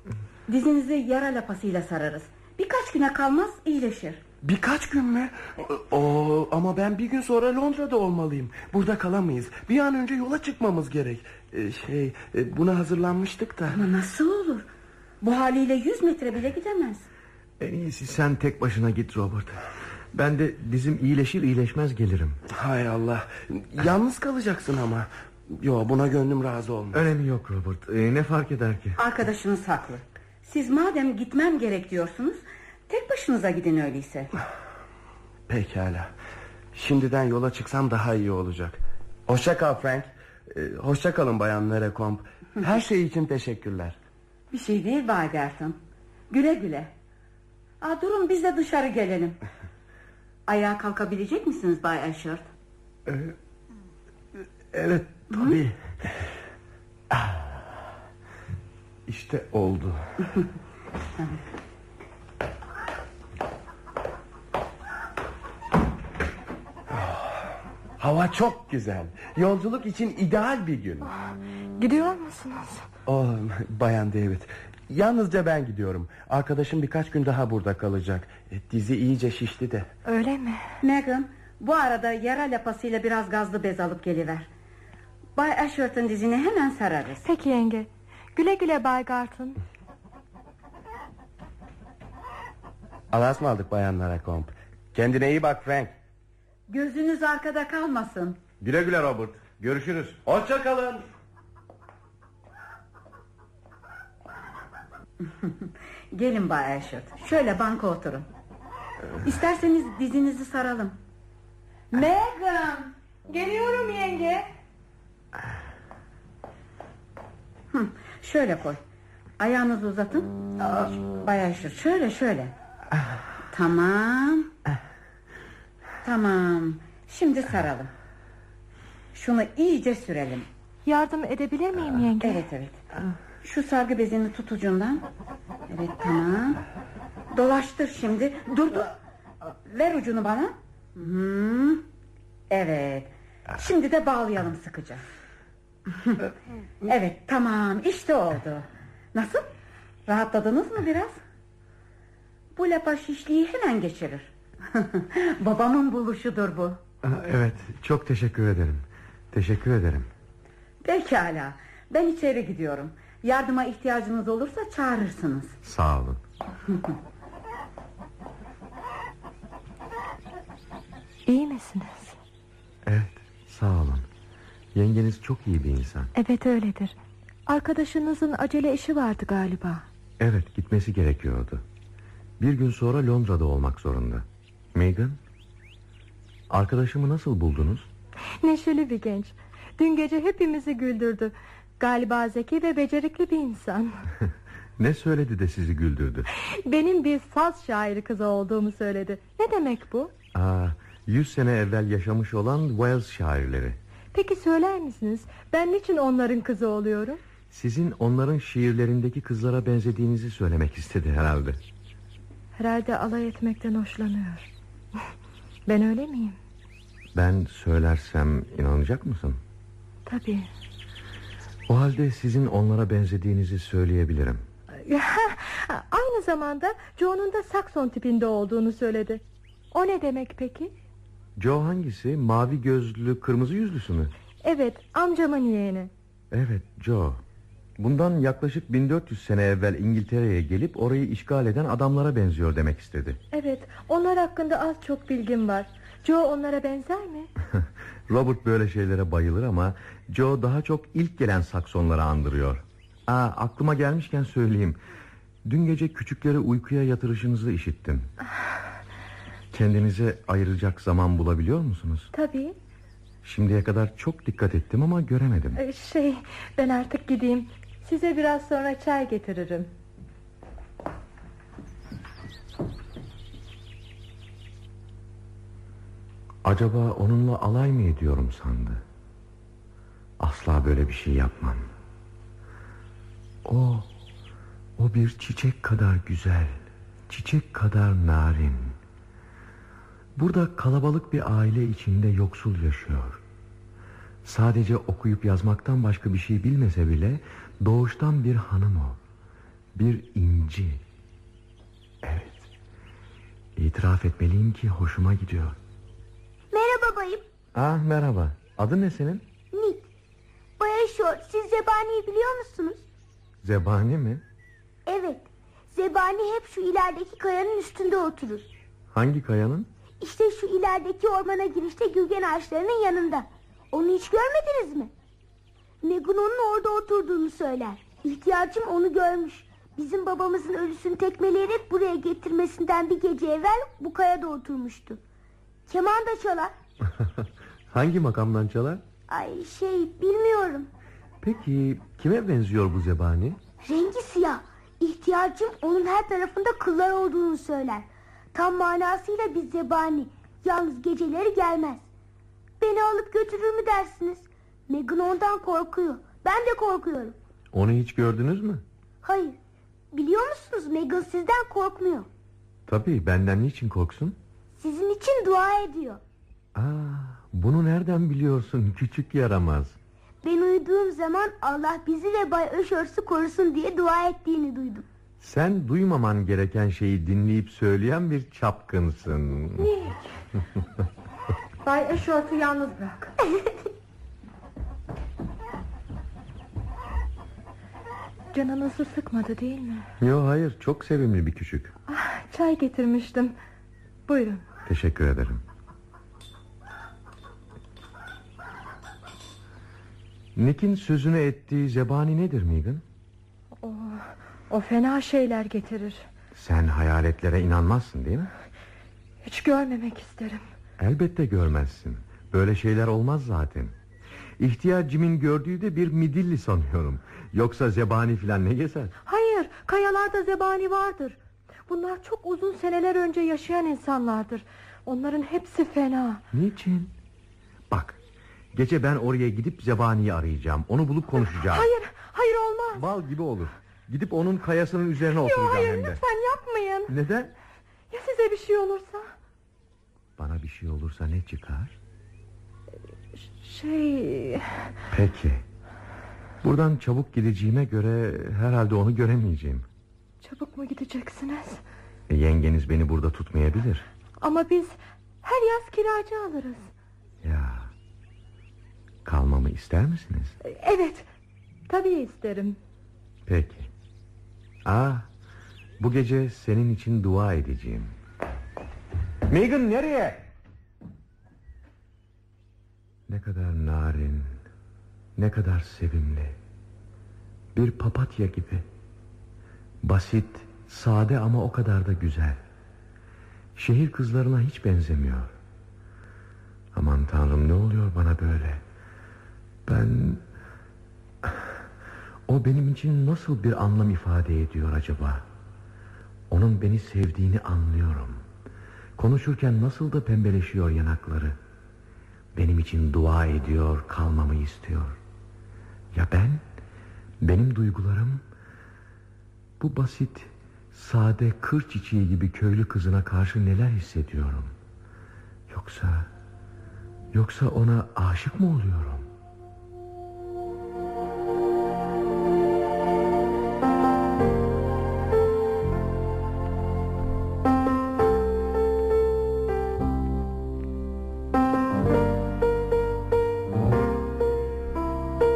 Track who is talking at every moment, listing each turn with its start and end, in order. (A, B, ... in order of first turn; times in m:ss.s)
0:00.5-0:04.2 A
0:04.4-0:13.8 B
0:13.7-0:14.7 A
0:15.2-0:17.0 A
0:17.6-0:19.6 C
0:20.1-0:22.4 C
0:22.5-0:27.0 B
0:26.9-0:29.0 C
0:29.0-0:34.3 A
0:35.5-0:36.1 B
0:36.7-0:44.0 B
0:44.5-0:45.8 A
0:46.3-0:46.9 A
0:47.8-0:49.4 A
0:50.5-0:52.4 A
0:54.7-0:55.7 B
0:55.3-0:55.6 A
0:59.1-1:00.0 B
1:06.9-1:11.1 B
1:11.8-1:12.8 D
1:13.0-1:19.9 B
1:20.0-1:20.6 D
1:20.8-1:24.5 A
1:25.4-1:27.2 A
1:27.2-1:29.6 D
1:33.1-1:35.9 B
1:36.7-1:38.4 A
1:38.6-1:40.2 C
1:40.2-1:41.0 B
1:45.2-1:48.3 A
1:49.2-1:51.0 A
1:51.9-1:52.9 A
1:53.3-1:54.4 D
1:57.7-1:58.8 A
1:59.4-2:02.5 A
2:03.5-2:04.5 A
2:06.0-2:07.9 A
2:09.1-2:10.5 A
2:10.8-2:12.4 D
2:12.2-2:12.8 A
2:13.4-2:15.0 A
2:15.7-2:16.6 A
2:17.3-2:18.9 A
2:19.7-2:21.8 A
2:22.5-2:25.0 A
2:26.8-2:29.5 A
2:30.1-2:31.2 A
2:32.6-2:36.8 A
2:37.0-2:40.1 C
2:40.8-2:45.5 A
2:45.6-2:46.2 C
2:51.2-2:52.2 D
2:52.8-2:54.1 C
2:54.7-2:56.1 C
2:56.1-2:56.9 D
2:57.5-2:59.8 D
3:00.2-3:01.6 C
3:02.4-3:05.2 C
3:06.5-3:07.9 C
3:08.4-3:14.0 D
3:14.2-3:16.3 C
3:16.3-3:20.1 D
3:20.3-3:23.8 C
3:24.1-3:27.2 D
3:27.5-3:31.6 C
3:32.6-3:34.5 D
3:35.6-3:36.4 D
3:37.1-3:39.4 C
3:40.0-3:40.5 D
3:41.7-3:44.4 C
3:44.7-3:50.7 D
3:51.4-3:54.1 C
3:54.4-3:55.9 D
3:56.3-3:57.2 C
3:57.8-4:03.2 C
4:03.3-4:07.3 D
4:07.4-4:14.8 C
4:15.4-4:18.1 C
4:19.5-4:22.1 C
4:22.1-4:22.6 D
4:23.2-4:25.6 C
4:25.6-4:29.7 D
4:36.4-4:38.8 C
4:40.2-4:41.7 C
4:43.4-4:43.9 C
4:44.8-4:48.8 C
4:50.1-4:53.2 C
4:54.2-4:59.0 C
4:59.7-5:00.8 C
5:02.0-5:02.5 C
5:03.6-5:05.6 C
5:06.5-5:07.2 E
5:07.5-5:09.2 C
5:09.5-5:09.9 E
5:10.6-5:12.8 E
5:13.4-5:14.2 C
5:14.8-5:18.5 E
5:18.9-5:19.7 C
5:20.0-5:24.9 E
5:25.8-5:35.0 E
5:35.7-5:36.5 E
5:36.9-5:38.8 C
5:39.1-5:40.7 E
5:41.2-5:43.4 C
5:43.6-5:51.9 E
5:52.6-5:57.2 E
5:57.5-5:58.6 C
5:59.0-5:59.4 E
5:59.9-6:02.1 E
6:02.7-6:04.2 C
6:04.6-6:06.0 E
6:06.5-6:09.8 C
6:10.2-6:14.8 E
6:15.2-6:19.7 C
6:19.6-6:20.2 D
6:21.6-6:23.2 D
6:28.3-6:29.9 D
6:30.0-6:31.7 C
6:31.9-6:33.3 D
6:34.1-6:34.4 D
6:34.6-6:35.4 C
6:40.4-6:42.8 C
6:43.6-6:46.0 D
6:46.3-6:48.3 C
6:49.2-6:50.5 D
6:50.8-6:53.8 C
6:54.4-6:58.9 C
6:59.0-7:06.2 D
7:06.3-7:06.9 C
7:07.7-7:08.0 C
7:08.5-7:11.7 C
7:11.4-7:12.8 D
7:12.7-7:16.0 C
7:15.2-7:16.9 D
7:16.9-7:17.3 C
7:17.9-7:19.1 D
7:20.2-7:21.8 C
7:23.1-7:24.7 D
7:24.9-7:25.4 C
7:26.4-7:29.7 C
7:30.2-7:31.6 D
7:32.1-7:33.8 C
7:34.2-7:36.7 D
7:37.2-7:37.7 C
7:39.0-7:40.3 C
7:40.4-7:41.1 D
7:41.7-7:42.6 D
7:43.2-7:43.7 C
7:44.6-7:45.1 C
7:45.8-7:48.0 C
7:49.3-7:50.2 C
7:53.1-7:54.4 C
7:55.2-7:56.4 C
7:57.5-7:58.7 C
7:59.8-8:02.4 C
8:03.6-8:05.3 C
8:06.7-8:08.6 C
8:09.6-8:10.2 C
8:11.2-8:11.6 C
8:12.3-8:15.2 C
8:16.3-8:18.2 C
8:19.0-8:21.4 C
8:22.3-8:25.0 C
8:25.9-8:26.4 C
8:27.2-8:28.2 C
8:29.6-8:34.5 C
8:35.5-8:36.1 C
8:37.1-8:39.1 C